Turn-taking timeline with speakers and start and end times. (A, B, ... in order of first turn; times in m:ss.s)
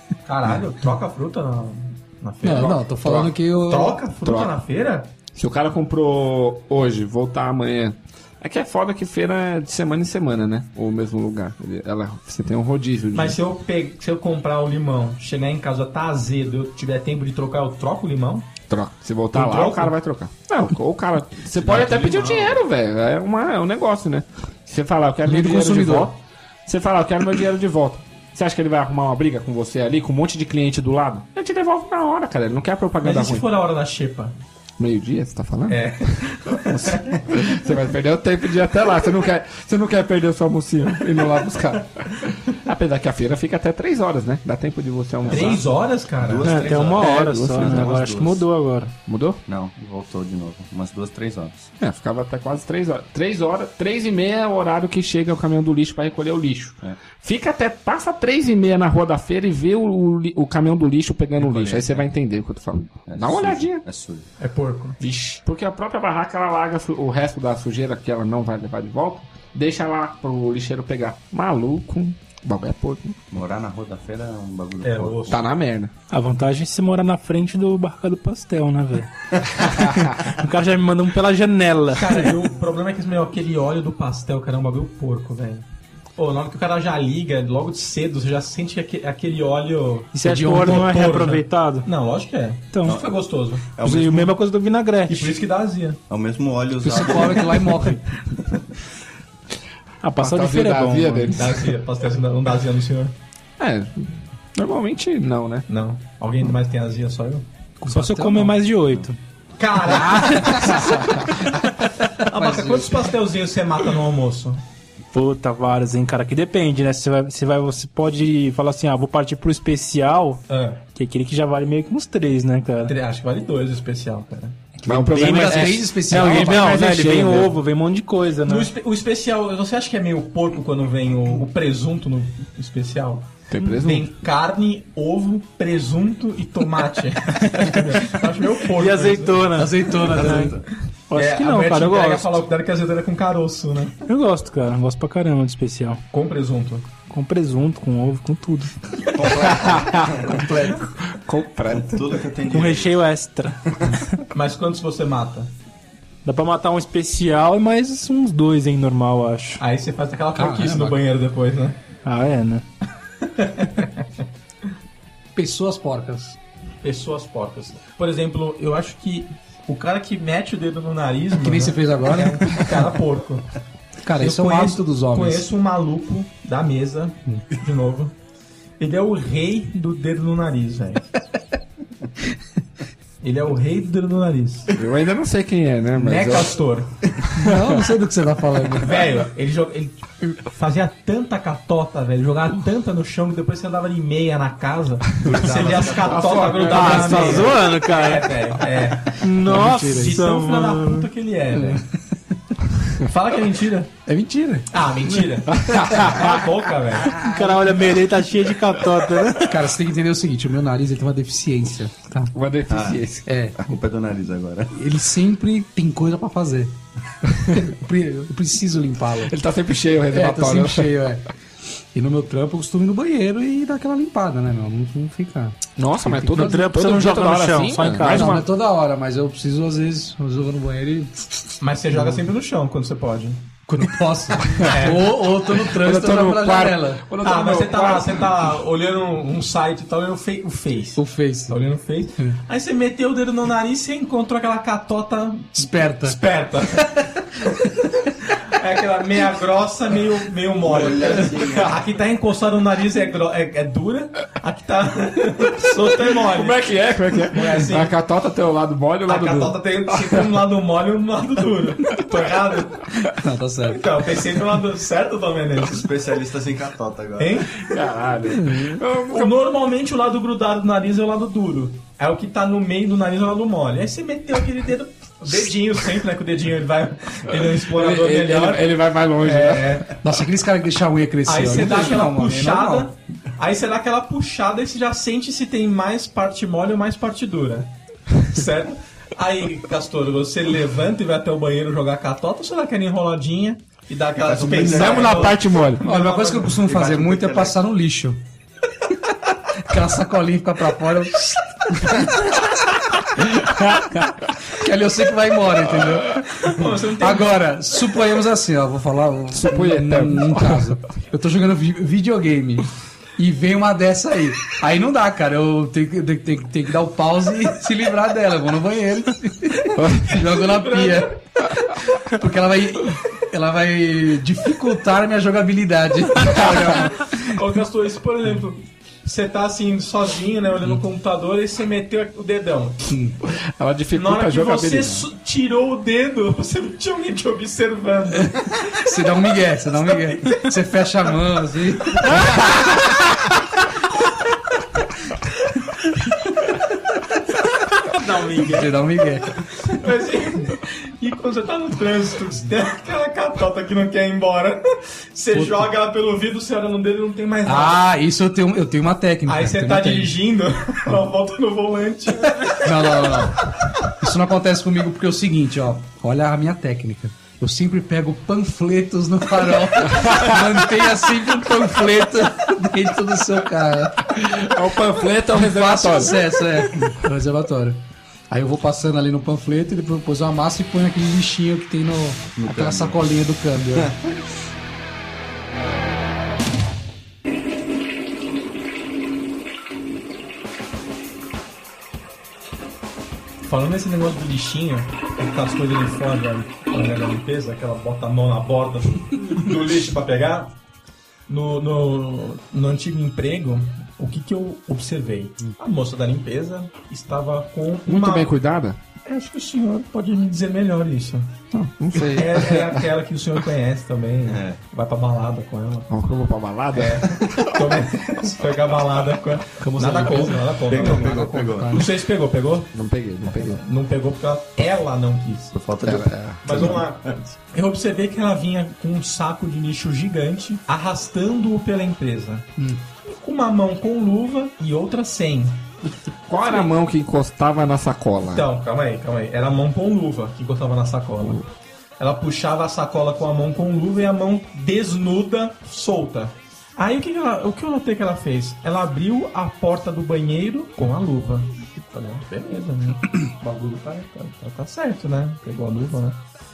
0:00.3-0:02.9 A
0:02.4-0:04.0 B
0:02.5-0:03.3 C
0:03.6-0:05.1 A
0:04.2-0:04.5 C
0:05.3-0:13.4 C
0:13.1-0:18.6 A
0:18.7-0:33.4 C
0:19.3-0:19.9 A
0:21.6-0:22.6 A
0:25.2-0:26.1 B
0:33.0-0:34.4 A
0:34.8-0:45.6 C
0:35.7-0:37.3 A
0:45.2-0:45.6 D
0:45.3-0:46.8 A
0:46.2-0:48.4 D
0:46.4-0:49.0 E
0:46.9-0:48.0 C
0:49.0-0:49.4 C
0:49.5-0:51.7 D
0:51.8-1:03.8 C
1:01.4-1:02.1 D
1:03.1-1:04.3 D
1:04.4-1:05.0 A
1:05.0-1:13.2 C
1:13.3-1:15.4 D
1:14.8-1:15.4 A
1:15.3-1:15.9 C
1:16.1-1:19.1 E
1:19.7-1:20.1 C
1:20.2-1:22.3 E
1:22.0-1:25.6 A
1:26.2-1:33.8 A
1:30.1-1:31.9 E
1:30.2-1:30.9 B
1:32.7-1:33.0 E
1:33.8-1:34.3 D
1:33.8-1:35.4 E
1:35.1-1:36.0 A
1:36.1-1:37.9 D
1:36.8-1:38.0 B
1:40.0-1:41.4 E
1:40.2-1:41.7 C
1:41.4-1:43.2 A
1:43.6-1:45.7 C
1:45.7-1:47.5 A
1:47.8-1:48.6 B
1:47.9-1:49.2 E
1:49.6-1:51.2 A
1:49.9-1:51.2 E
1:50.2-1:50.6 B
1:52.2-1:54.6 A
1:52.2-1:53.1 B
1:55.1-2:00.4 E
2:00.5-2:00.8 A
2:01.0-2:03.0 E
2:02.9-2:04.7 A
2:04.8-2:08.7 E
2:04.8-2:07.5 C
2:05.2-2:06.8 B
2:08.5-2:19.6 A
2:13.5-2:14.1 C
2:17.5-2:20.6 E
2:19.6-2:20.6 B
2:20.1-2:20.5 A
2:21.1-2:22.4 E
2:21.1-2:24.0 A
2:24.1-2:26.0 E
2:26.1-2:26.9 A
2:27.1-2:28.8 E
2:29.1-2:30.5 D
2:29.4-2:32.1 C
2:31.7-2:33.0 D
2:32.5-2:34.2 E
2:34.3-2:35.5 A
2:36.2-2:39.6 E
2:39.6-2:41.8 A
2:40.4-2:41.0 B
2:42.0-2:42.7 E
2:43.2-2:44.0 A
2:45.4-2:46.4 B
2:46.8-2:53.5 A
2:51.4-2:52.8 B
2:54.0-2:55.5 B
2:54.2-2:58.1 A
2:58.8-3:01.2 A
3:03.2-3:04.7 A
3:04.7-3:06.6 C
3:06.0-3:06.9 A
3:07.4-3:09.0 B
3:07.4-3:07.9 C
3:08.8-3:21.8 A
3:15.2-3:16.6 D
3:15.5-3:17.5 C
3:16.7-3:18.4 E
3:16.7-3:17.3 B
3:19.2-3:21.1 E
3:19.4-3:20.2 B
3:21.5-3:21.8 B
3:23.0-3:23.9 A
3:24.1-3:24.7 B
3:24.7-3:27.2 A
3:25.5-3:26.4 C
3:27.2-3:29.6 E
3:29.4-3:32.3 B
3:32.3-3:33.2 C
3:32.7-3:33.0 D
3:33.3-3:33.6 B
3:33.6-3:34.7 D
3:34.7-3:36.8 B
3:37.5-3:39.4 B
3:39.2-3:41.0 C
3:40.1-3:41.2 B
3:41.9-3:46.6 B
3:45.8-3:48.5 C
3:46.3-3:48.3 E
3:48.0-3:52.2 B
3:51.6-3:53.4 A
3:53.7-3:57.0 B
3:54.6-3:55.2 A
3:55.5-3:58.2 C
3:57.2-4:07.5 A
4:01.0-4:01.6 B
4:05.5-4:06.2 B
4:08.3-4:16.7 A
4:10.7-4:11.7 D
4:16.2-4:20.3 C
4:17.2-4:17.9 A
4:19.1-4:22.9 A
4:23.1-4:23.8 B
4:23.7-4:25.9 A
4:25.7-4:27.5 D
4:27.2-4:27.8 A
4:27.7-4:29.3 C
4:29.1-4:40.0 A
4:37.3-4:39.9 C
4:40.0-4:42.9 B
4:41.3-4:56.6 A
4:54.2-4:55.4 D
4:54.5-4:55.9 C
4:55.8-4:58.2 B
4:56.6-4:57.6 D
4:59.7-5:02.1 B
5:03.4-5:04.1 C
5:04.5-5:21.2 B
5:06.4-5:07.5 A
5:09.3-5:10.8 C
5:19.8-5:20.2 C
5:20.4-5:21.2 A
5:21.9-5:27.3 B
5:27.0-5:32.9 A
5:32.9-5:33.2 B
5:33.6-5:35.1 C
5:33.9-5:38.8 A
5:38.2-5:42.5 B
5:48.0-5:48.3 A
5:48.2-5:48.6 E
5:48.3-5:49.4 B
5:49.6-5:57.8 A
5:55.3-5:55.7 B
5:57.5-6:00.2 B
5:59.3-6:03.3 A
6:02.6-6:14.1 B
6:09.9-6:10.4 C
6:14.1-6:16.3 C
6:15.3-6:23.9 B
6:22.4-6:23.0 D
6:23.7-6:24.2 D
6:33.5-6:40.6 A
6:41.3-6:48.4 A
6:47.9-6:48.8 C
6:49.0-6:51.4 A
6:51.5-6:52.8 C
6:51.9-6:55.9 A
6:54.3-6:54.6 D
6:55.9-6:57.5 C
6:56.7-7:02.7 A
6:59.6-7:01.9 B
7:00.7-7:01.9 D
7:02.7-7:03.6 C
7:03.3-7:05.6 A
7:05.5-7:07.2 D
7:05.8-7:06.8 C
7:06.4-7:12.5 A
7:12.6-7:12.8 B
7:13.0-7:15.6 A
7:16.3-7:18.5 C
7:16.4-7:16.7 A
7:18.3-7:21.4 A
7:22.0-7:36.2 A